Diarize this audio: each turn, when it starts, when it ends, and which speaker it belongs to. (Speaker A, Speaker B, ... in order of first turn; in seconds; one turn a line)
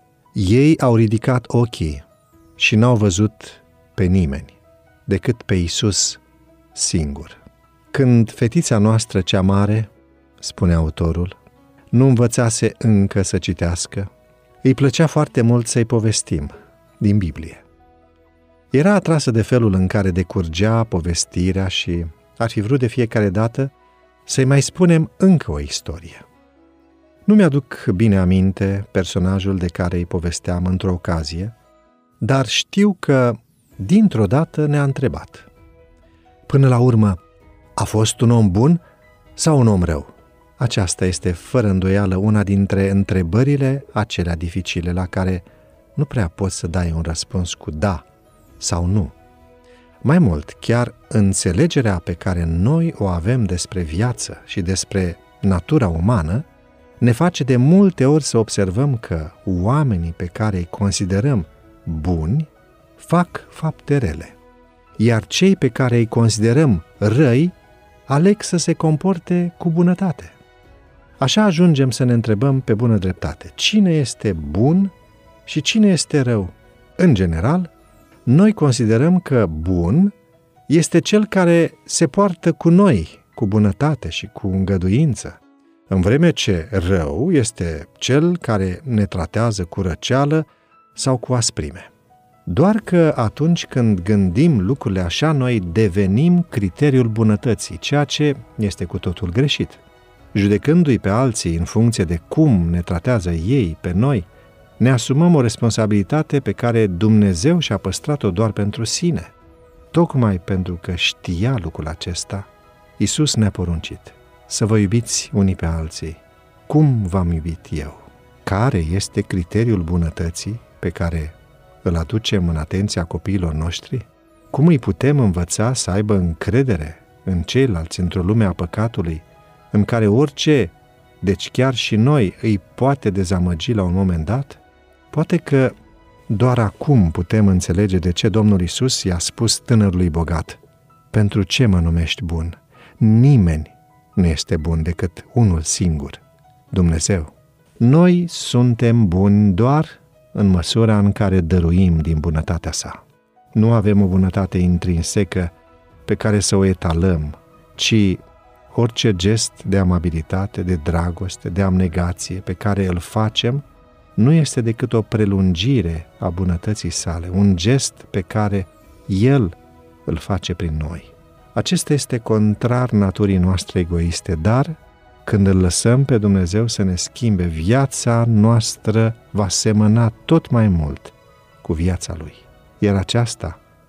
Speaker A: 0.3-2.0
Speaker A: 2.6-6.2
Speaker A: 6.7-7.4
Speaker A: 7.9-11.4
Speaker A: 11.9-14.1
Speaker A: 14.6-17.6
Speaker A: 18.7-23.7
Speaker A: 24.2-26.2
Speaker A: 27.2-31.5
Speaker A: 32.2-35.5
Speaker A: 36.5-37.2
Speaker A: 37.8-38.8
Speaker A: 39.4-48.0
Speaker A: 48.6-49.1
Speaker A: 50.0-56.5
Speaker A: 57.0-64.3
Speaker A: 65.0-67.5
Speaker A: 68.1-70.4
Speaker A: 71.2-74.9
Speaker A: 75.5-77.7
Speaker A: 78.2-80.1
Speaker A: 80.7-91.9
Speaker A: 92.5-99.8
Speaker A: 100.3-104.3
Speaker A: 104.8-109.3
Speaker A: 109.9-135.8
Speaker A: 136.3-140.6
Speaker A: 141.1-153.0
Speaker A: 153.5-155.5
Speaker A: 156.0-163.6
Speaker A: 164.2-183.6